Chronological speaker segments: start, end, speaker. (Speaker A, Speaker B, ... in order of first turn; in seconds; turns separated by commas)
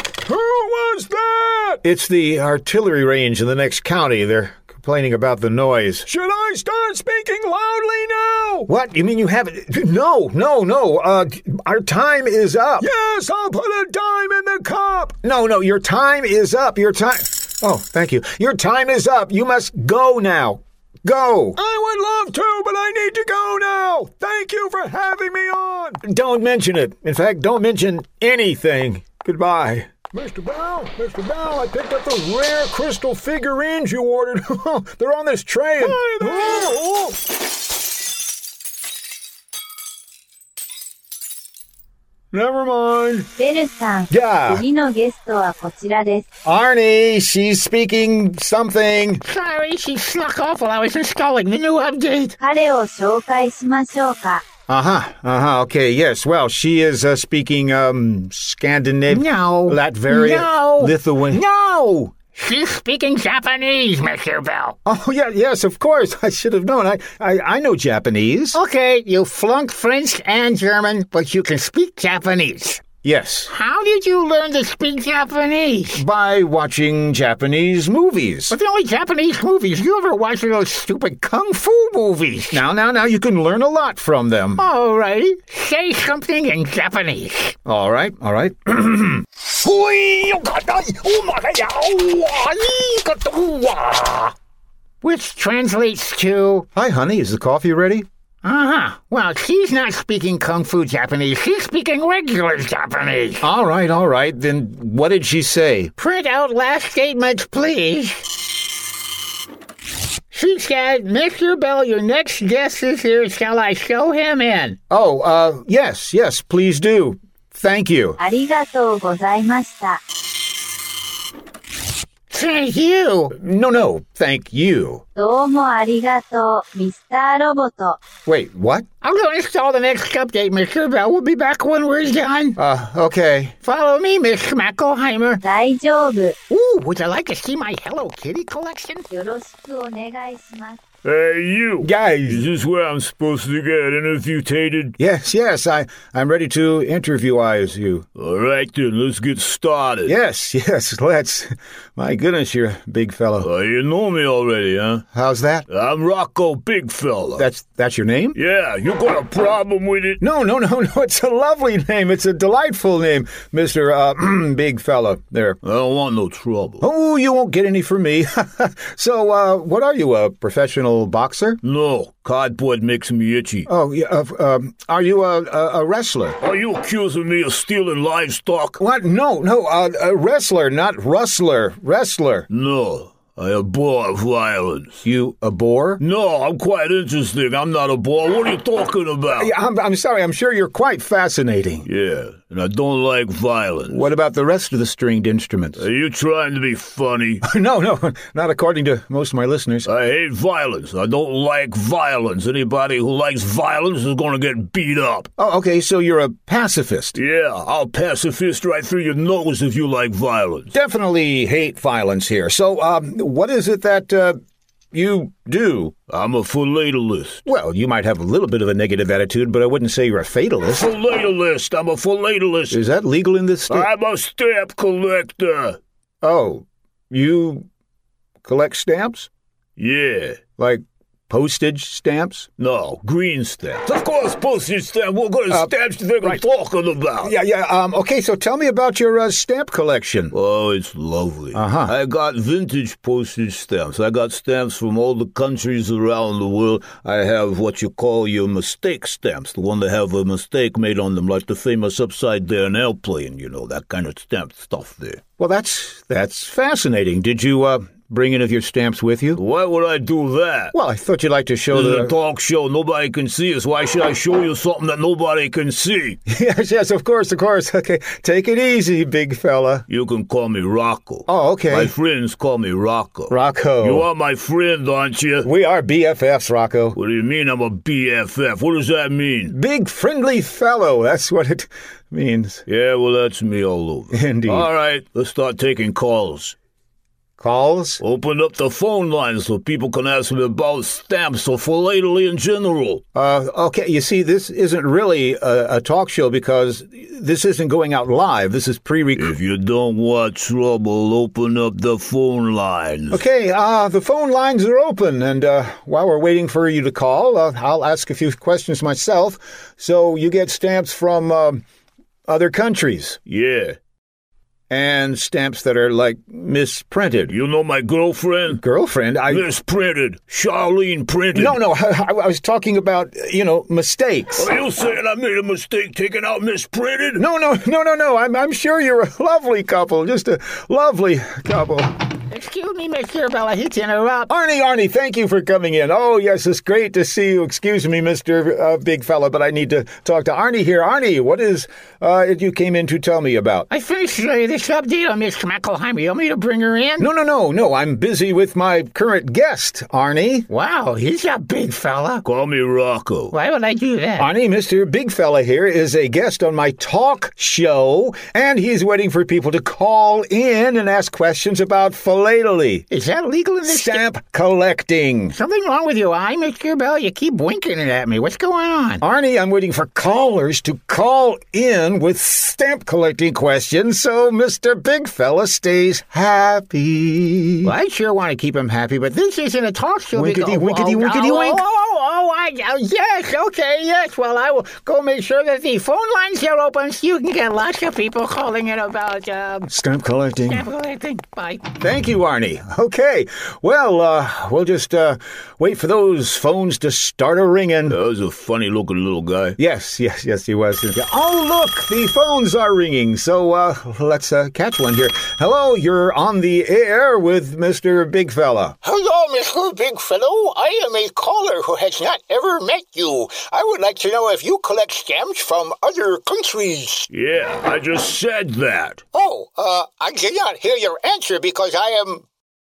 Speaker A: 0.4-1.8, Speaker B: 1.8-6.1, Speaker A: 6.1-8.7, Speaker B: 8.7-12.9, Speaker A: 12.8-15.1, Speaker B: 15.2-21.6, Speaker A: 21.6-26.0, Speaker B: 26.0-37.0, Speaker B: 42.3-43.3, Speaker C: 43.4-46.2, Speaker B: 44.1-44.6, Speaker B: 46.5-49.2, Speaker D: 49.3-52.4, Speaker C: 52.4-54.4, Speaker B: 54.7-61.4, Speaker D: 59.1-64.8, Speaker B: 64.8-68.6, Speaker D: 68.5-72.9, Speaker B: 73.0-73.5, Speaker D: 73.5-76.0, Speaker B: 75.9-78.5, Speaker D: 78.5-82.6, Speaker B: 82.5-84.6, Speaker D: 84.6-87.6, Speaker B: 87.7-92.3, Speaker D: 92.9-94.3, Speaker D: 95.0-96.7, Speaker B: 96.7-98.1, Speaker D: 98.4-103.4, Speaker B: 103.4-105.9, Speaker D: 106.0-108.3, Speaker D: 110.3-114.8, Speaker B: 114.9-118.2, Speaker C: 118.2-120.0, Speaker D: 122.3-123.3, Speaker B: 123.3-125.0, Speaker C: 125.2-128.0, Speaker B: 128.3-128.9, Speaker D: 129.0-132.6, Speaker B: 132.6-133.6, Speaker D: 133.6-135.4, Speaker C: 135.4-136.4, Speaker D: 136.5-139.1, Speaker C: 139.1-140.8, Speaker E: 141.0-145.0, Speaker B: 141.8-142.5, Speaker B: 145.0-148.1, Speaker E: 148.2-150.1, Speaker B: 150.1-153.5, Speaker E: 153.4-155.0, Speaker B: 155.1-155.7, Speaker E: 155.7-157.5, Speaker B: 157.3-158.4, Speaker E: 158.3-160.2, Speaker B: 160.2-165.6, Speaker E: 165.6-166.8, Speaker B: 166.8-171.6, Speaker E: 171.6-173.7, Speaker B: 173.7-176.4, Speaker E: 176.4-178.8, Speaker B: 178.8-182.5, Speaker E: 182.5-185.0, Speaker B: 185.0-186.0, Speaker E: 186.0-189.5, Speaker B: 189.3-191.9, Speaker E: 191.8-194.1, Speaker B: 193.9-195.8, Speaker E: 195.8-197.4, Speaker B: 197.4-199.9, Speaker E: 199.8-205.3, Speaker B: 205.4-207.2, Speaker E: 207.2-210.7, Speaker B: 210.7-214.4, Speaker B: 214.9-215.9, Speaker E: 216.1-217.4, Speaker B: 217.4-220.9, Speaker E: 220.7-222.8, Speaker B: 222.7-223.9, Speaker E: 223.7-225.8, Speaker B: 226.2-227.7, Speaker B: 228.4-229.3, Speaker E: 229.8-230.4, Speaker B: 230.6-232.5, Speaker E: 232.6-237.3, Speaker B: 237.2-240.3, Speaker E: 240.3-255.2, Speaker B: 241.5-241.9, Speaker B: 255.4-259.4, Speaker E: 259.4-260.7, Speaker B: 260.7-262.1, Speaker E: 261.7-266.2, Speaker B: 266.3-269.9, Speaker E: 269.9-275.5, Speaker B: 271.3-271.9, Speaker B: 273.3-274.1, Speaker B: 275.4-277.0, Speaker E: 276.9-279.5, Speaker B: 279.5-282.6, Speaker E: 282.7-286.6, Speaker B: 284.1-284.7, Speaker B: 287.4-288.0, Speaker E: 288.0-293.0, Speaker B: 293.1-299.4, Speaker E: 299.2-303.2, Speaker B: 303.1-311.6, Speaker B: 312.3-313.2, Speaker E: 313.3-313.8, Speaker B: 314.7-317.4, Speaker E: 317.3-318.6, Speaker B: 318.5-319.4, Speaker E: 319.3-321.6, Speaker B: 321.3-324.5, Speaker E: 324.4-327.2, Speaker B: 327.1-331.9, Speaker D: 332.3-334.3, Speaker B: 334.3-343.7, Speaker D: 343.7-347.1, Speaker B: 347.0-350.5, Speaker D: 350.5-352.2, Speaker E: 352.2-353.4, Speaker D: 353.3-354.3, Speaker B: 354.2-362.9, Speaker D: 362.9-364.0, Speaker B: 363.6-365.4, Speaker D: 365.3-369.0, Speaker B: 369.0-377.7, Speaker D: 377.6-389.7, Speaker B: 380.1-381.6, Speaker B: 389.7-390.7, Speaker D: 390.4-391.7, Speaker B: 391.8-398.0, Speaker E: 397.9-399.6, Speaker B: 399.6-408.8, Speaker D: 408.8-417.1, Speaker E: 417.1-419.0, Speaker D: 419.1-422.2